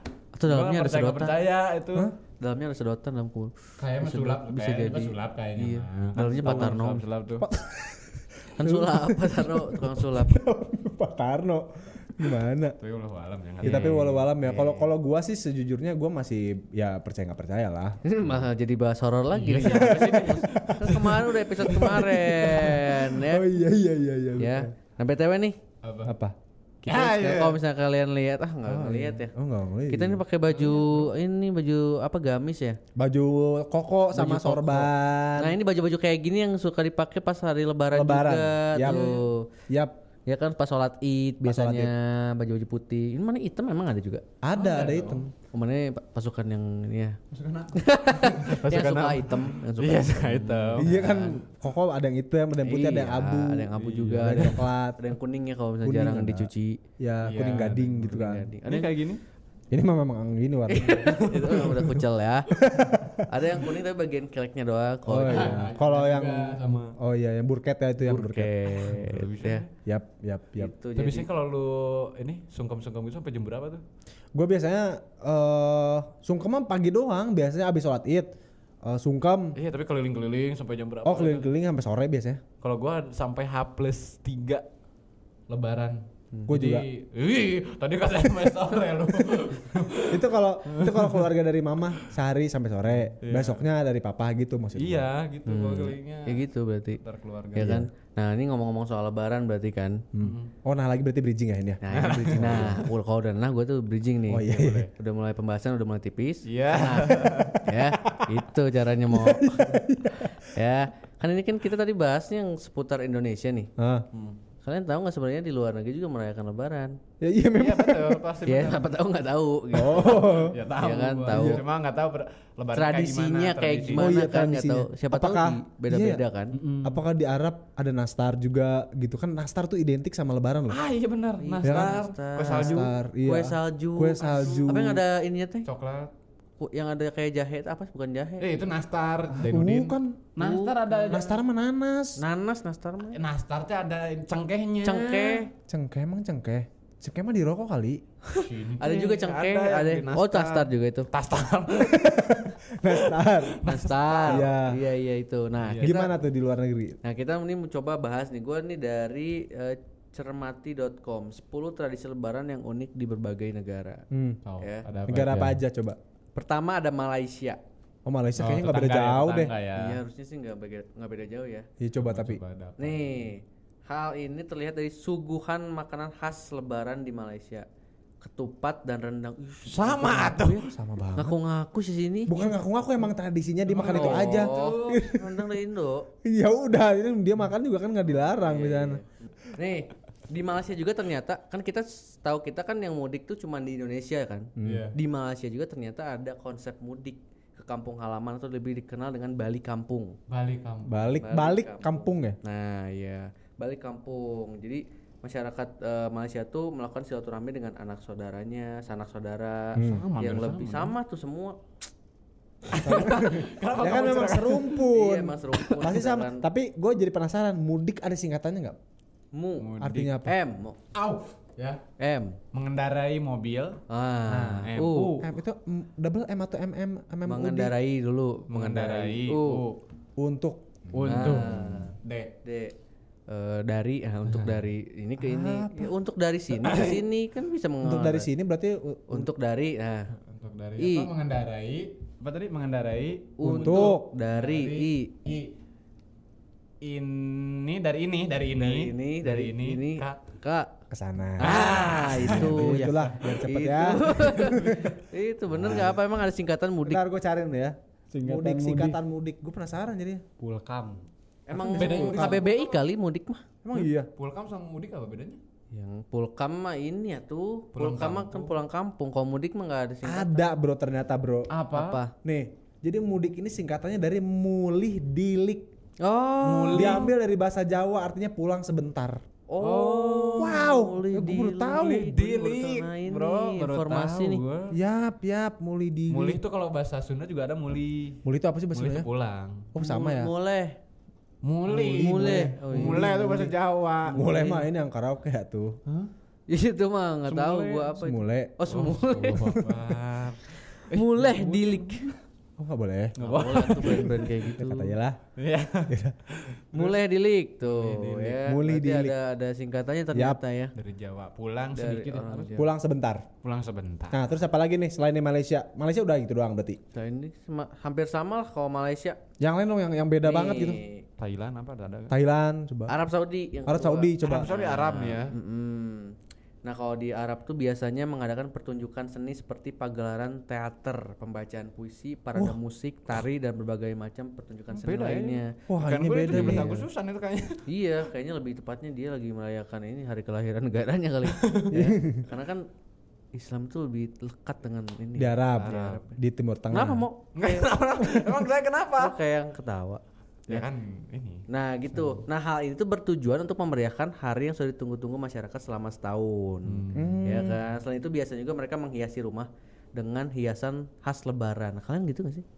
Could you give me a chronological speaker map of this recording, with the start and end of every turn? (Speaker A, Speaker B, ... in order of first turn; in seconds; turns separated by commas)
Speaker A: 0.4-1.4, Speaker B: 0.5-2.1, Speaker A: 2.4-7.0, Speaker B: 3.8-7.5, Speaker C: 6.4-6.7, Speaker C: 7.4-12.8, Speaker A: 8.6-10.4, Speaker B: 12.8-14.3, Speaker C: 13.6-18.0, Speaker A: 13.6-14.9, Speaker A: 18.0-23.5, Speaker B: 19.3-22.6, Speaker C: 19.6-20.5, Speaker C: 21.6-24.7, Speaker A: 24.4-25.6, Speaker B: 25.8-26.1, Speaker C: 26.1-26.4, Speaker A: 26.8-29.3, Speaker B: 26.9-27.6, Speaker C: 28.7-30.2, Speaker A: 29.9-32.8, Speaker B: 30.5-31.1, Speaker C: 33.0-35.6, Speaker A: 34.1-39.5, Speaker C: 37.9-39.9, Speaker A: 40.3-44.2, Speaker C: 41.4-41.9, Speaker C: 44.4-45.3, Speaker B: 44.5-45.3, Speaker A: 45.5-47.2, Speaker B: 47.3-51.4, Speaker A: 47.7-51.0, Speaker C: 50.8-55.0, Speaker A: 52.6-56.8, Speaker B: 53.8-54.7, Speaker C: 55.8-58.5, Speaker B: 57.2-59.2, Speaker A: 58.1-58.9, Speaker C: 59.7-61.9, Speaker A: 60.7-62.5, Speaker B: 61.0-61.9, Speaker C: 62.5-63.3, Speaker A: 63.3-65.7, Speaker C: 65.1-68.5, Speaker B: 65.2-67.0, Speaker A: 68.0-69.7, Speaker B: 68.7-69.7, Speaker C: 69.9-70.7, Speaker A: 70.6-71.3, Speaker B: 71.0-73.8, Speaker C: 74.3-78.3, Speaker C: 78.8-79.6, Speaker B: 79.6-81.5, Speaker C: 81.0-82.4, Speaker B: 82.6-84.7, Speaker B: 85.5-91.3, Speaker C: 86.5-86.9, Speaker C: 90.1-95.1, Speaker B: 93.2-93.6, Speaker B: 94.8-96.5, Speaker A: 95.5-97.0, Speaker B: 97.0-97.8, Speaker A: 97.5-100.0, Speaker C: 97.6-97.9, Speaker C: 100.1-102.9, Speaker B: 100.2-100.5, Speaker A: 101.8-113.7, Speaker B: 101.9-102.9, Speaker C: 104.3-104.9, Speaker B: 104.5-104.8, Speaker B: 106.5-107.7, Speaker C: 109.1-110.5, Speaker C: 113.8-114.1, Speaker B: 114.1-114.4, Speaker A: 114.6-117.0, Speaker C: 117.2-118.2, Speaker B: 117.6-118.9, Speaker A: 118.5-121.6, Speaker C: 119.7-120.6, Speaker B: 120.0-124.1, Speaker C: 121.3-121.6, Speaker A: 122.7-126.6, Speaker C: 123.9-126.2, Speaker B: 126.5-127.0, Speaker C: 126.8-130.8, Speaker B: 130.7-132.9, Speaker A: 131.4-135.7, Speaker C: 131.6-135.0, Speaker B: 135.7-136.1, Speaker A: 136.6-138.5, Speaker B: 138.4-141.3, Speaker C: 139.3-140.2, Speaker A: 140.4-141.3, Speaker C: 141.1-142.2, Speaker A: 142.2-143.2, Speaker B: 143.1-145.4, Speaker A: 144.8-145.5, Speaker C: 145.7-148.0, Speaker A: 148.3-151.1, Speaker B: 148.3-154.5, Speaker C: 151.7-153.6, Speaker A: 153.7-156.1, Speaker C: 154.2-154.8, Speaker B: 155.6-156.0, Speaker C: 155.8-157.0, Speaker A: 157.0-164.1, Speaker C: 164.1-164.4, Speaker B: 164.4-165.6, Speaker A: 164.6-164.9, Speaker C: 165.1-166.0, Speaker A: 166.3-167.6, Speaker C: 168.1-169.5, Speaker B: 168.4-170.0, Speaker A: 169.7-171.7, Speaker C: 171.8-172.4, Speaker B: 172.0-173.3, Speaker A: 172.8-177.7, Speaker A: 178.2-182.4, Speaker B: 179.7-180.7, Speaker C: 180.7-181.4, Speaker C: 182.3-185.4, Speaker B: 183.7-185.0, Speaker A: 183.8-186.1, Speaker C: 186.2-189.0, Speaker A: 188.2-200.2, Speaker C: 194.6-194.9, Speaker B: 194.6-194.9, Speaker B: 200.3-201.1, Speaker C: 200.9-202.4, Speaker A: 201.2-211.6, Speaker B: 209.8-210.9, Speaker C: 209.8-210.1, Speaker B: 212.7-214.8, Speaker A: 212.8-213.3, Speaker C: 212.8-218.8, Speaker A: 214.7-216.5, Speaker A: 219.3-219.7, Speaker B: 219.6-220.2, Speaker C: 219.8-220.3, Speaker A: 220.2-220.8, Speaker B: 220.9-221.8, Speaker A: 222.0-222.4, Speaker B: 222.5-225.3, Speaker A: 223.9-225.2, Speaker C: 225.2-227.7, Speaker A: 227.3-229.6, Speaker B: 228.5-229.8, Speaker C: 230.2-231.7, Speaker B: 230.9-232.3, Speaker A: 231.1-232.8, Speaker A: 233.3-238.3, Speaker B: 234.3-234.6, Speaker C: 235.2-235.9, Speaker B: 236.6-237.0, Speaker C: 237.8-239.3, Speaker A: 239.1-240.1, Speaker B: 240.3-245.5, Speaker A: 240.8-241.1, Speaker A: 243.4-245.2, Speaker C: 243.4-244.1, Speaker B: 246.8-250.2, Speaker A: 248.6-250.8, Speaker C: 250.9-254.9, Speaker A: 251.4-257.0, Speaker B: 251.4-253.3, Speaker B: 254.2-255.0, Speaker B: 255.6-255.9, Speaker C: 256.9-260.2, Speaker B: 258.1-259.0, Speaker B: 260.4-261.1, Speaker A: 261.5-263.4, Speaker C: 261.5-262.4, Speaker B: 261.7-262.8, Speaker C: 263.6-264.1, Speaker B: 263.7-265.4, Speaker A: 265.7-270.5, Speaker B: 267.8-268.6, Speaker C: 270.0-271.5, Speaker B: 271.5-272.0, Speaker A: 271.7-272.1, Speaker C: 272.2-275.7, Speaker A: 276.0-277.1, Speaker B: 276.4-277.1, Speaker C: 276.7-279.2, Speaker A: 279.5-284.4, Speaker B: 279.6-280.6, Speaker C: 280.4-282.1, Speaker B: 281.7-284.8, Speaker C: 284.7-286.4, Speaker B: 286.1-288.2, Speaker C: 288.2-289.1, Speaker B: 288.7-289.7, Speaker C: 289.7-290.3, Speaker A: 289.8-290.8, Speaker B: 291.4-294.3, Speaker A: 291.7-293.4, Speaker C: 291.8-293.5, Speaker C: 294.1-295.8, Speaker A: 294.1-294.6, Speaker A: 296.5-299.6, Speaker B: 297.3-298.0, Speaker C: 298.0-298.6, Speaker B: 298.7-302.2, Speaker C: 299.5-300.0, Speaker A: 300.7-302.1, Speaker C: 302.6-303.2, Speaker B: 303.2-304.4, Speaker A: 303.2-304.9, Speaker C: 303.8-305.2, Speaker B: 305.4-307.0, Speaker C: 305.9-306.2, Speaker A: 306.7-310.7, Speaker B: 307.6-308.5, Speaker C: 308.4-309.2, Speaker C: 310.1-310.4, Speaker B: 310.8-312.6, Speaker A: 311.7-312.7, Speaker C: 312.6-313.3, Speaker B: 313.4-314.3, Speaker C: 314.1-316.8, Speaker A: 316.9-319.2, Speaker C: 319.4-320.8, Speaker A: 320.2-321.1, Speaker B: 321.2-322.1, Speaker C: 322.1-322.9, Speaker A: 322.9-335.6, Speaker C: 323.7-324.5, Speaker B: 324.2-325.3, Speaker B: 334.7-337.6, Speaker C: 335.7-336.8, Speaker A: 336.3-336.8, Speaker A: 337.7-342.7, Speaker B: 341.3-341.8, Speaker C: 341.7-342.3, Speaker A: 343.3-346.1, Speaker C: 345.2-347.1, Speaker B: 345.6-346.0, Speaker A: 346.7-347.7, Speaker B: 347.4-349.2, Speaker A: 349.0-350.7, Speaker B: 350.5-352.2, Speaker A: 351.5-362.4, Speaker B: 356.7-357.2, Speaker C: 356.9-357.6